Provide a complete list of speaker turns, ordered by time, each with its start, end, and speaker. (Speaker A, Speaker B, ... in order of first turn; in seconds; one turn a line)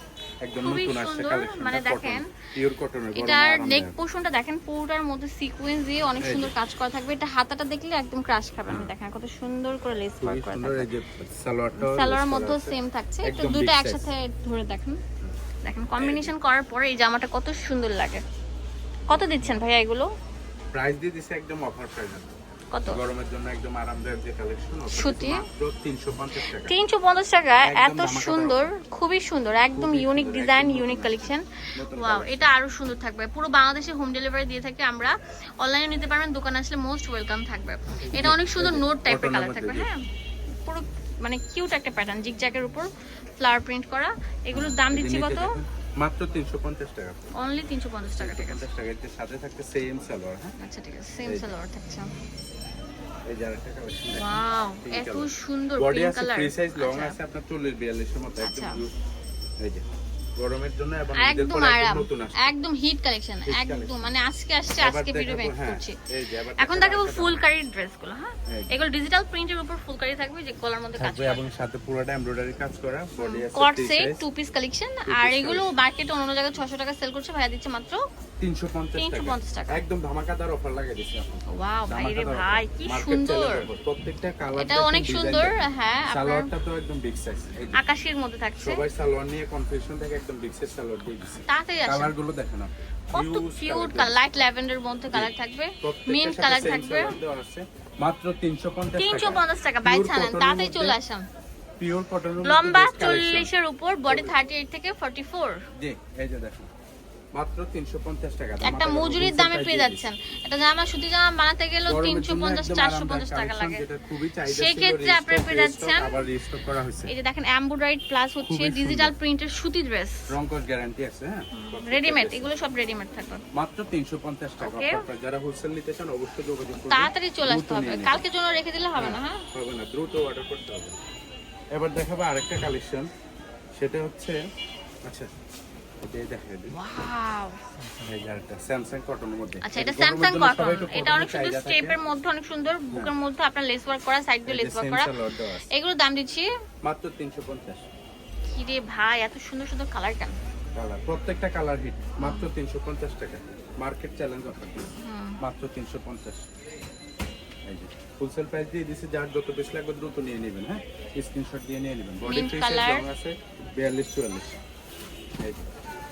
Speaker A: 0.4-4.0
Speaker B: 0.6-2.2
Speaker B: 3.2-10.9
Speaker A: 6.2-6.6
Speaker A: 8.7-8.9
Speaker A: 10.2-14.1
Speaker B: 11.7-15.0
Speaker B: 15.7-18.2
Speaker A: 16.0-16.3
Speaker B: 19.1-20.1
Speaker A: 20.7-22.4
Speaker B: 22.7-23.0
Speaker A: 22.9-26.8
Speaker B: 24.9-25.5
Speaker B: 26.5-40.0
Speaker A: 27.6-28.7
Speaker A: 29.7-32.5
Speaker A: 38.0-39.9
Speaker B: 40.6-42.9
Speaker B: 43.4-45.6
Speaker A: 44.5-47.3
Speaker B: 47.4-48.7
Speaker A: 48.2-50.5
Speaker B: 50.6-52.1
Speaker A: 51.3-51.5
Speaker A: 53.3-59.0
Speaker B: 54.1-57.2
Speaker B: 58.4-58.8
Speaker A: 59.6-59.9
Speaker A: 60.4-62.5
Speaker B: 61.1-66.0
Speaker A: 63.4-64.1
Speaker A: 64.8-67.5
Speaker B: 66.6-71.4
Speaker A: 68.5-68.8
Speaker A: 71.0-74.2
Speaker B: 73.2-78.0
Speaker A: 75.1-75.7
Speaker A: 78.4-85.6
Speaker B: 79.0-79.8
Speaker B: 81.5-83.7
Speaker B: 84.6-86.5
Speaker A: 86.1-87.8
Speaker B: 87.8-88.8
Speaker A: 88.6-94.2
Speaker B: 91.3-92.2
Speaker B: 93.1-97.2
Speaker A: 95.1-101.0
Speaker B: 98.9-101.2
Speaker A: 101.8-103.5
Speaker B: 102.4-105.6
Speaker A: 104.1-104.4
Speaker A: 105.8-106.7
Speaker A: 107.3-110.1
Speaker B: 108.6-113.8
Speaker A: 111.9-117.1
Speaker B: 114.5-116.3
Speaker B: 117.1-120.2
Speaker A: 118.4-119.1
Speaker A: 120.3-122.5
Speaker B: 121.5-123.4
Speaker A: 123.5-128.2
Speaker B: 124.6-125.1
Speaker B: 126.9-129.4
Speaker A: 129.0-131.0
Speaker A: 131.7-133.1
Speaker A: 133.8-134.4
Speaker A: 136.0-136.8
Speaker B: 136.7-137.6
Speaker A: 137.8-142.0
Speaker B: 139.6-145.1
Speaker A: 144.5-145.7
Speaker B: 145.7-146.5
Speaker A: 146.8-147.9
Speaker B: 148.5-150.3
Speaker A: 150.8-156.5
Speaker B: 152.2-152.5
Speaker B: 155.0-155.4
Speaker A: 157.7-164.6
Speaker B: 162.2-163.1
Speaker A: 165.4-165.7